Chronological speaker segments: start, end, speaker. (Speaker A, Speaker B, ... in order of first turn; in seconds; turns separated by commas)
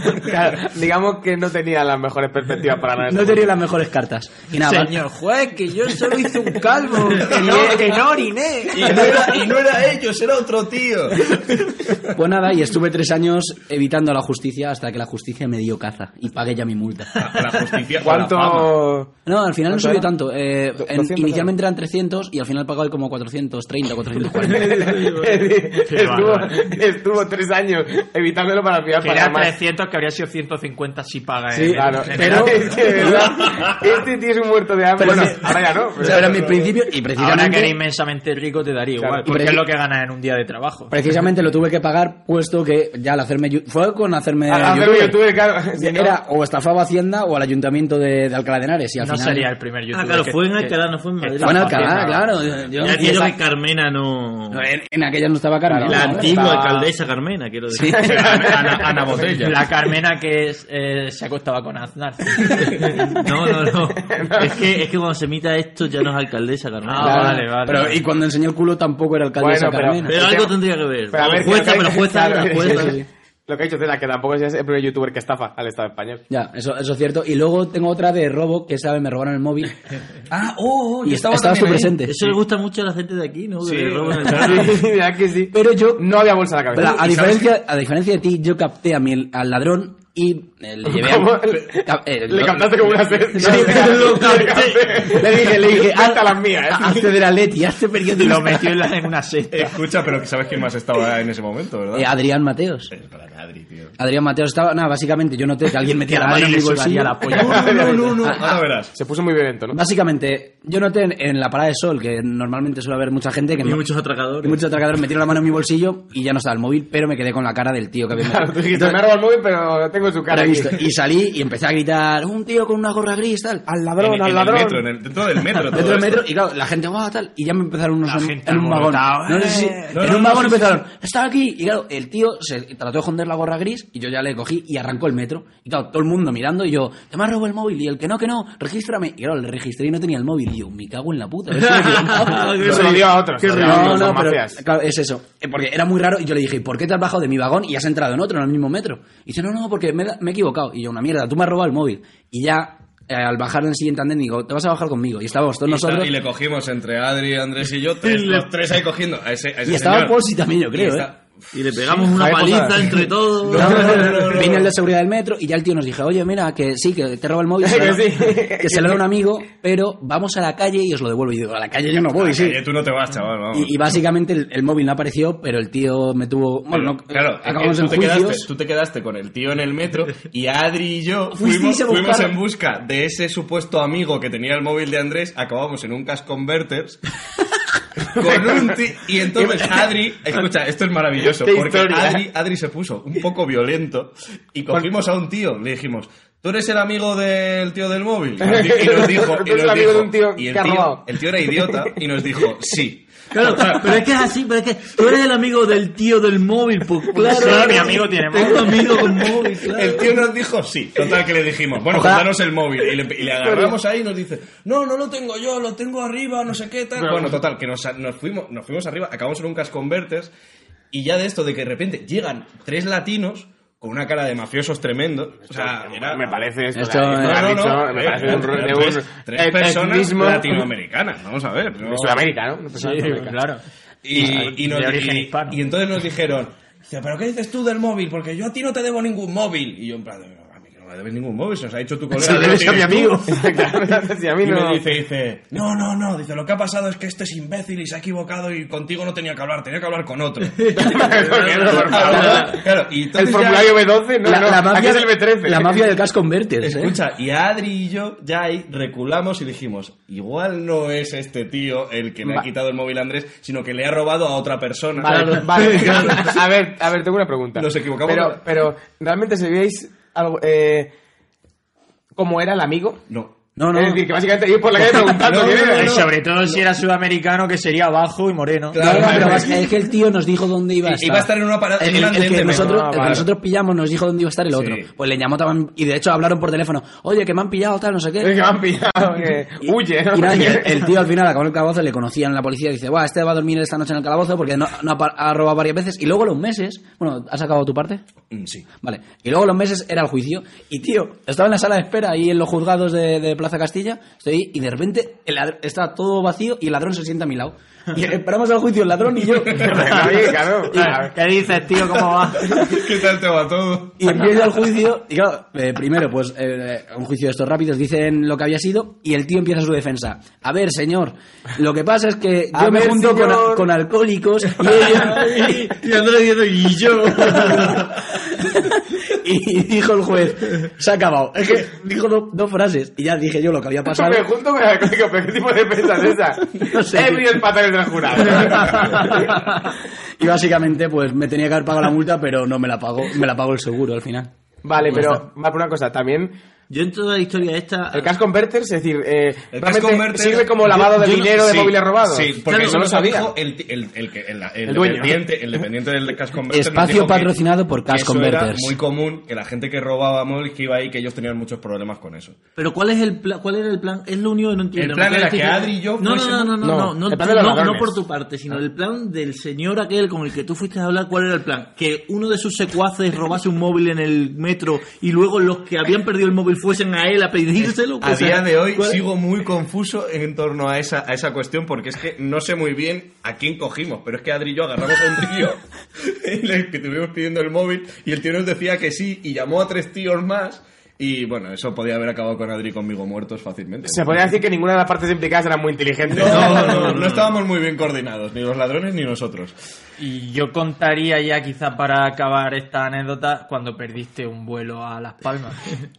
Speaker A: 0.2-3.5, Speaker B: 3.1-5.0, Speaker C: 4.6-9.3, Speaker D: 7.2-8.1, Speaker B: 7.3-7.7, Speaker D: 8.7-12.2, Speaker B: 12.1-17.4, Speaker D: 17.1-18.9, Speaker A: 17.9-19.1, Speaker B: 19.2-25.1, Speaker A: 19.7-20.1, Speaker A: 20.8-21.5, Speaker A: 24.4-29.5, Speaker C: 25.8-26.7, Speaker C: 29.0-32.9, Speaker B: 31.5-33.4, Speaker A: 31.7-36.6, Speaker B: 35.0-37.8, Speaker C: 37.1-40.9, Speaker A: 39.0-39.2, Speaker B: 39.2-39.6, Speaker B: 40.9-45.2, Speaker A: 44.5-46.2, Speaker B: 45.7-49.5, Speaker C: 49.0-52.2, Speaker E: 49.9-54.6, Speaker B: 51.4-53.3, Speaker B: 54.5-56.6, Speaker A: 55.7-56.9, Speaker E: 55.8-58.2, Speaker B: 57.7-58.1, Speaker A: 57.9-59.3, Speaker D: 58.0-59.6, Speaker C: 59.4-63.1, Speaker E: 62.8-67.4, Speaker A: 63.5-64.7, Speaker C: 66.9-68.0, Speaker B: 67.0-70.2, Speaker A: 69.4-70.5, Speaker E: 70.0-73.0, Speaker A: 71.1-76.2, Speaker B: 72.6-73.1, Speaker B: 76.3-79.7, Speaker D: 80.3-82.3, Speaker B: 81.0-82.2, Speaker E: 82.0-84.8, Speaker D: 83.6-84.7, Speaker A: 84.2-87.0, Speaker B: 85.5-86.0, Speaker B: 86.7-94.3, Speaker D: 86.9-87.5, Speaker A: 90.8-97.1, Speaker E: 93.3-95.0, Speaker B: 95.0-98.8, Speaker C: 98.1-99.8, Speaker D: 99.5-102.1, Speaker B: 101.9-102.9, Speaker D: 102.9-104.0, Speaker B: 104.0-107.3, Speaker C: 106.1-107.9, Speaker D: 107.3-108.9, Speaker A: 107.3-109.8, Speaker B: 109.7-113.8, Speaker E: 113.6-114.6, Speaker B: 114.4-119.0, Speaker A: 118.2-120.8, Speaker B: 120.3-123.7, Speaker A: 123.7-124.8, Speaker D: 124.0-126.2, Speaker B: 125.7-156.1, Speaker C: 128.0-130.1, Speaker D: 129.9-130.8, Speaker E: 141.5-144.2, Speaker A: 142.5-144.6, Speaker D: 155.7-160.2, Speaker E: 158.0-158.5, Speaker B: 159.6-161.1, Speaker D: 160.7-162.1, Speaker E: 161.5-164.3, Speaker A: 162.0-163.1, Speaker D: 163.5-164.7, Speaker B: 163.5-172.6, Speaker A: 167.6-169.0, Speaker D: 172.2-173.8, Speaker B: 173.5-178.5, Speaker D: 176.7-187.0, Speaker B: 181.3-182.4, Speaker D: 188.1-204.0, Speaker A: 188.2-188.6, Speaker A: 189.3-189.8, Speaker A: 191.2-192.2, Speaker A: 198.4-201.9, Speaker E: 203.3-210.1, Speaker C: 207.2-208.9, Speaker D: 209.5-220.3, Speaker B: 211.9-212.2, Speaker A: 213.4-213.7, Speaker A: 217.0-217.3, Speaker D: 220.9-226.4, Speaker A: 225.5-230.7, Speaker B: 226.7-227.6, Speaker D: 227.2-232.2, Speaker A: 231.8-233.3, Speaker C: 232.7-233.6, Speaker D: 234.0-243.4, Speaker C: 234.1-235.6, Speaker A: 242.1-244.8, Speaker D: 244.4-253.8, Speaker E: 250.6-252.5, Speaker A: 250.7-255.8, Speaker B: 254.2-256.9, Speaker D: 256.6-266.3, Speaker A: 265.0-270.9, Speaker E: 265.5-266.2, Speaker D: 267.5-268.4, Speaker A: 272.1-273.0, Speaker D: 273.1-273.4, Speaker B: 273.6-274.0, Speaker A: 273.7-275.9, Speaker D: 274.8-276.6, Speaker C: 275.7-279.1, Speaker D: 278.7-279.6, Speaker B: 278.8-288.4, Speaker A: 278.9-279.4, Speaker D: 280.8-283.2, Speaker A: 282.4-283.3, Speaker D: 284.5-284.9, Speaker A: 288.2-290.9, Speaker B: 289.6-298.0, Speaker D: 298.3-298.7, Speaker B: 298.7-310.1, Speaker A: 309.6-311.1, Speaker C: 309.7-312.8, Speaker D: 312.5-314.1, Speaker B: 314.0-325.7, Speaker A: 322.5-323.7, Speaker E: 324.6-327.9, Speaker B: 327.2-334.2, Speaker A: 333.9-339.5, Speaker B: 336.5-337.4, Speaker D: 338.6-338.9, Speaker B: 339.0-339.4, Speaker B: 340.2-344.3, Speaker A: 344.6-346.3, Speaker E: 346.7-348.1, Speaker A: 347.9-353.3, Speaker D: 349.5-357.3, Speaker E: 350.7-351.2, Speaker E: 352.5-352.8, Speaker A: 354.7-355.2, Speaker B: 356.5-358.7, Speaker D: 357.9-362.4, Speaker E: 362.6-379.0, Speaker D: 364.8-366.6, Speaker A: 366.6-367.9, Speaker D: 378.0-394.2, Speaker A: 393.8-397.0, Speaker D: 396.1-399.5, Speaker E: 396.2-397.3, Speaker C: 400.0-405.6